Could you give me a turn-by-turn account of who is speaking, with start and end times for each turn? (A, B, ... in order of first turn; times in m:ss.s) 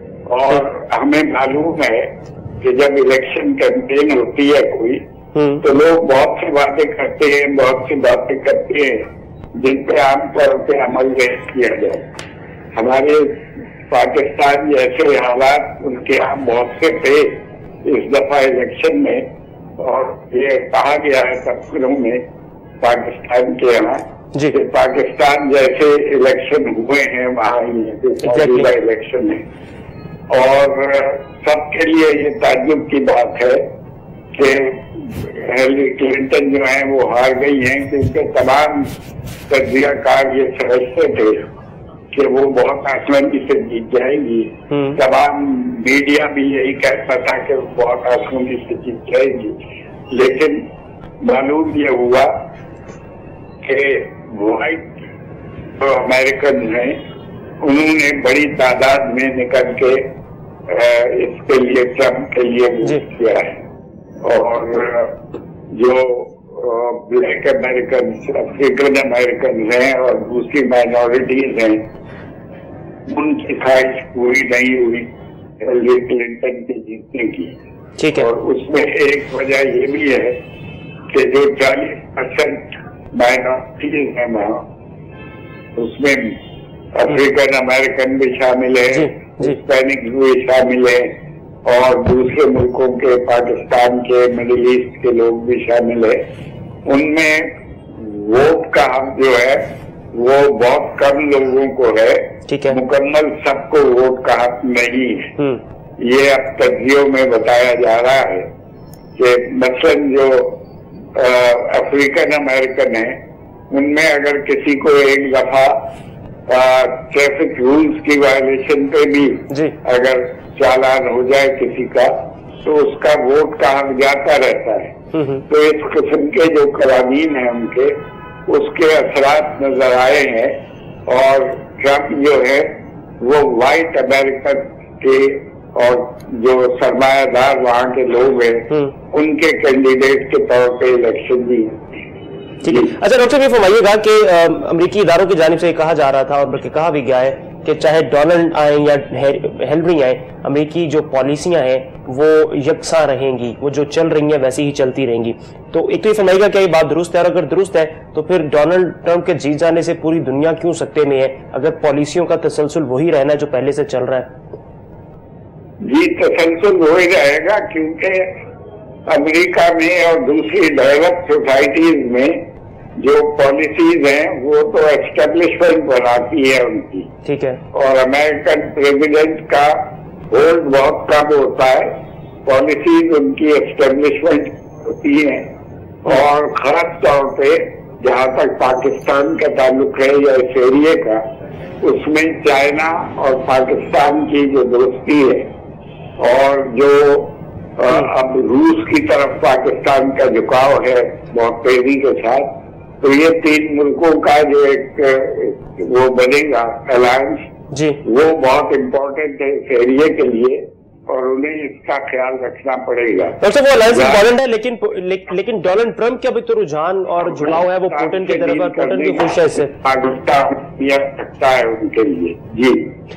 0:00.3-0:05.0 A
0:05.3-0:05.6 B
0:05.6-0:12.1 A
0:12.7-0:19.3 A
0:19.8-0:22.2 A
0:22.8-0:29.4 A
0:28.2-0:28.7 B
0:30.3-0:33.6 A
0:34.3-0:38.9 A
0:39.5-0:41.4 A
0:42.1-0:49.6 A
0:44.7-0:45.0 B
0:50.1-0:50.6 A
0:51.2-0:52.4 A
0:53.6-0:54.9 A
0:55.8-0:57.0 A
0:57.6-1:00.1 A
1:00.7-1:03.5 A
1:04.2-1:05.2 A
1:05.7-1:11.9 A
1:13.1-1:17.6 A
1:18.0-1:18.3 B
1:18.1-1:20.4 A
1:21.1-1:24.6 A
1:25.7-1:26.4 A
1:26.9-1:31.1 A
1:28.9-1:29.6 B
1:31.6-1:36.2 A
1:36.8-1:45.3 A
1:42.5-1:42.8 B
1:46.0-1:48.5 A
1:49.2-1:50.6 A
1:51.1-1:53.2 A
1:53.7-1:55.8 A
1:56.5-2:05.0 A
1:59.5-1:59.8 B
2:05.1-2:05.4 B
2:05.5-2:22.0 A
2:22.6-2:44.3 B
2:45.8-2:48.3 A
2:49.1-2:52.5 A
2:53.0-2:57.1 A
2:57.2-2:57.6 B
2:57.7-3:05.5 A
3:06.0-3:11.2 A
3:11.8-3:15.5 A
3:16.2-3:22.5 A
3:23.0-3:27.5 A
3:27.7-3:28.0 B
3:28.0-3:34.3 A
3:33.4-3:39.7 B
3:37.3-3:42.9 A